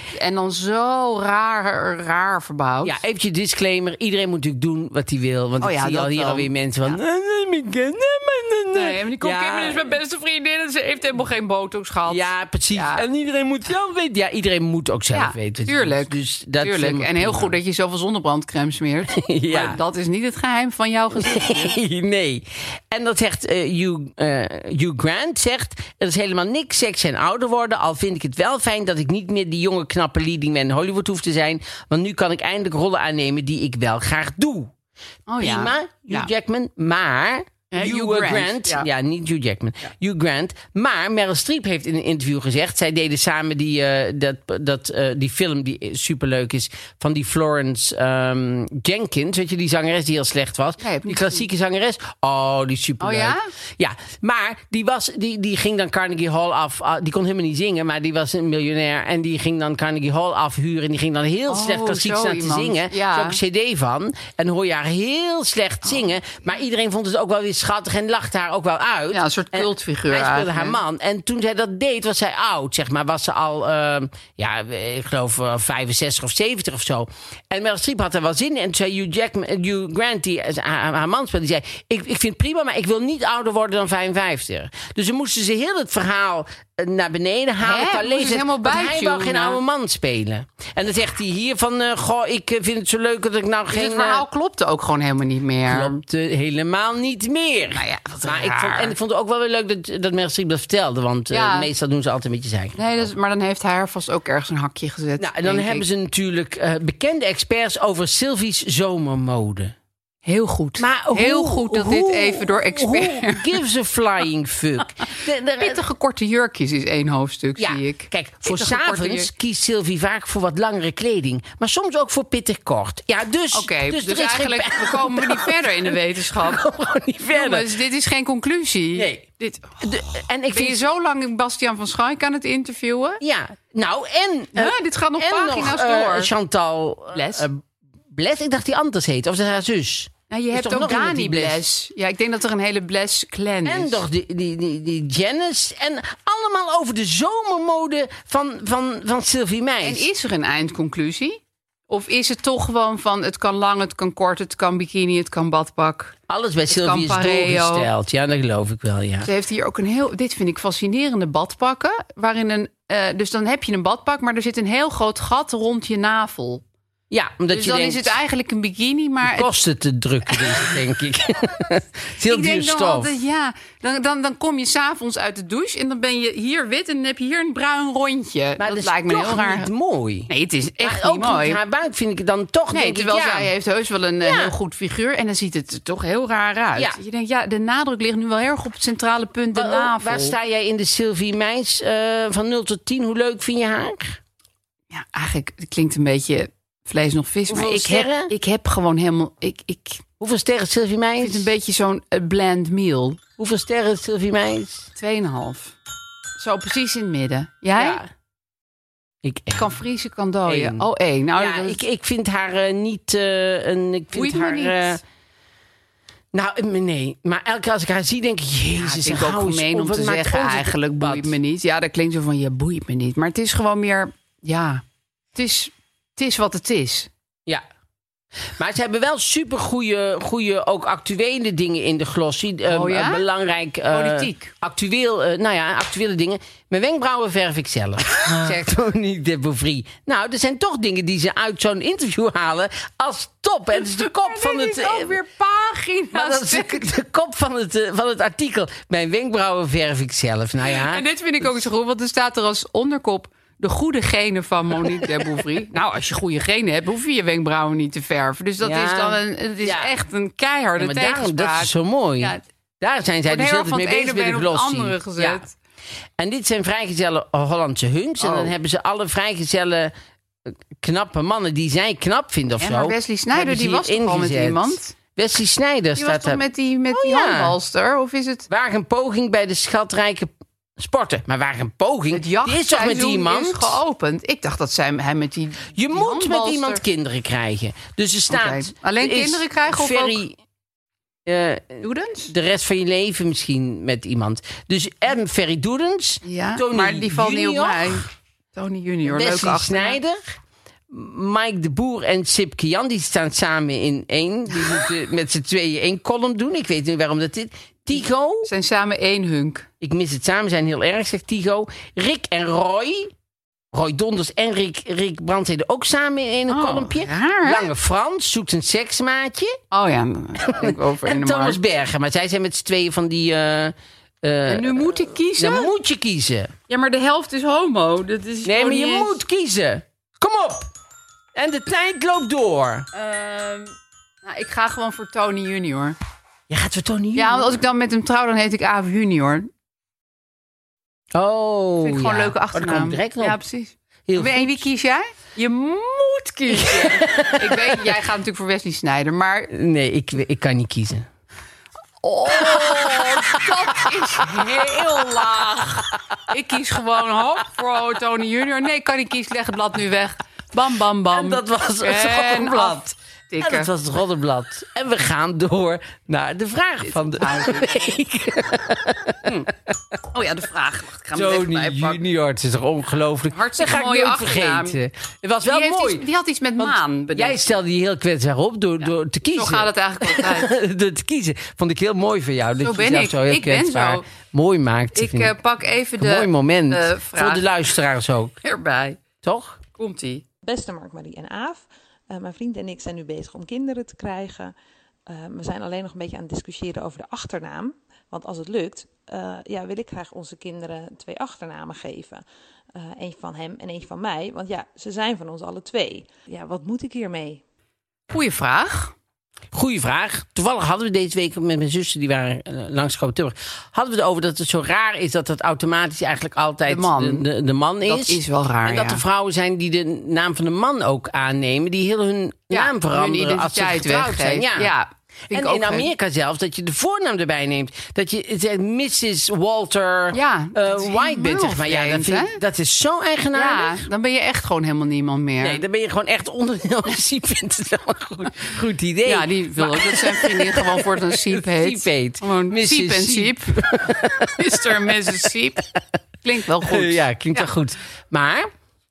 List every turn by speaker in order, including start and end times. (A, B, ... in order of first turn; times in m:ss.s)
0:00.2-0:02.9 A
0:02.8-0:10.0 B
0:05.6-0:06.5 A
0:08.8-0:12.2 A
0:12.1-0:17.6 B
0:12.8-0:13.0 A
0:15.2-0:16.1 A
0:16.6-0:21.6 A
0:19.1-0:19.8 B
0:21.2-0:34.7 B
0:35.3-0:36.2 A
0:35.4-1:34.2 B
0:37.8-0:38.8 A
0:50.8-0:51.3 A
0:53.0-0:53.4 A
1:01.5-1:03.4 A
1:09.2-1:10.7 A
1:27.6-1:29.6 A
1:33.8-1:35.9 A
1:35.7-1:43.1 B
1:37.8-1:38.9 A
1:41.4-1:41.6 A
1:42.8-1:45.8 A
1:45.2-1:49.7 B
1:50.3-1:53.4 A
1:50.8-1:55.8 B
1:55.6-1:59.3 A
1:57.6-2:07.7 B
2:03.6-2:06.6 A
2:07.4-2:09.6 A
2:09.0-2:09.3 B
2:09.8-2:10.8 B
2:10.6-2:13.2 A
2:13.2-2:21.6 B
2:14.6-2:16.3 A
2:17.2-2:17.4 A
2:20.3-2:24.0 A
2:23.6-2:30.1 B
2:29.9-2:31.4 A
2:31.9-2:36.1 A
2:36.3-2:39.3 B
2:36.8-2:37.8 A
2:39.3-2:46.6 A
2:47.1-2:48.2 B
2:47.5-2:49.5 A
2:49.2-2:53.2 B
2:52.3-2:59.7 A
2:58.6-3:03.5 B
3:00.3-3:01.6 A
3:02.8-3:10.3 A
3:04.2-3:04.5 B
3:09.5-3:14.2 B
3:14.9-3:20.0 A
3:17.5-3:18.3 B
3:20.2-3:21.5 B
3:21.2-3:23.2 A
3:23.4-3:24.9 B
3:25.0-3:25.7 A
3:26.4-3:28.0 A
3:27.8-3:28.1 B
3:29.2-3:29.8 B
3:29.6-3:31.8 A
3:30.5-3:35.0 B
3:34.2-3:34.8 A
3:36.3-3:41.4 B
3:38.8-3:44.8 A
3:45.4-3:47.1 A
3:48.6-4:05.2 B
3:52.8-3:53.2 A
3:53.9-3:54.5 A
4:04.1-4:06.8 A
4:06.1-4:11.0 B
4:10.9-4:21.7 A
4:14.9-4:15.4 B
4:18.6-4:19.9 B
4:20.8-4:25.4 B
4:23.3-4:25.5 A
4:26.2-4:29.9 B
4:30.5-4:37.6 B
4:32.6-4:34.9 A
4:36.0-4:38.4 A
4:38.5-4:43.8 B
4:42.2-4:46.8 A
4:45.7-4:50.4 B
4:48.4-4:50.2 A
4:51.3-4:58.1 B
4:51.8-4:52.3 A
4:56.3-4:58.0 A
4:58.6-5:00.0 A
4:59.1-5:00.2 B
5:00.9-5:08.5 B
5:08.5-5:09.6 A
5:09.8-5:13.1 B
5:13.7-5:19.6 B
5:16.5-5:17.6 A
5:19.7-5:21.6 A
5:20.4-5:26.5 B
5:24.5-5:25.7 A
5:26.7-5:29.2 A
5:28.4-5:30.7 B
5:31.4-5:32.9 B
5:33.0-5:33.7 A
5:34.2-5:35.9 A
5:36.5-5:37.6 B
5:37.2-5:39.5 A
5:41.1-5:43.4 B
5:41.8-5:49.5 A
5:44.1-5:44.6 B
5:46.5-5:47.9 B
5:49.5-5:51.1 B
5:52.0-5:55.8 A
5:52.3-5:55.8 B
5:56.3-6:03.7 A
6:01.1-6:09.5 B
6:07.0-6:07.9 A
6:10.1-6:12.0 A
6:11.1-6:16.0 B
6:13.3-6:14.8 A
6:15.5-6:17.4 A
6:16.6-6:25.4 B
6:19.4-6:20.5 A
6:22.6-6:24.0 A
6:25.0-6:27.4 A
6:26.0-6:28.4 B
6:28.5-6:29.0 A
6:29.2-6:29.6 B
6:29.8-6:30.2 A
6:30.4-6:34.5 C
6:35.1-6:42.2 C
6:42.8-6:47.4 C
6:48.1-6:48.9 A
6:49.5-7:04.7 B
6:56.7-6:57.2 A
6:57.9-6:59.0 A
7:02.6-7:04.8 A
7:05.3-7:13.9 B
7:05.3-7:05.9 A
7:10.2-7:12.4 A
7:13.4-7:15.6 A
7:15.4-7:25.1 B
7:19.1-7:23.5 A
7:24.2-7:25.6 A
7:26.2-7:27.0 A
7:26.6-7:28.5 B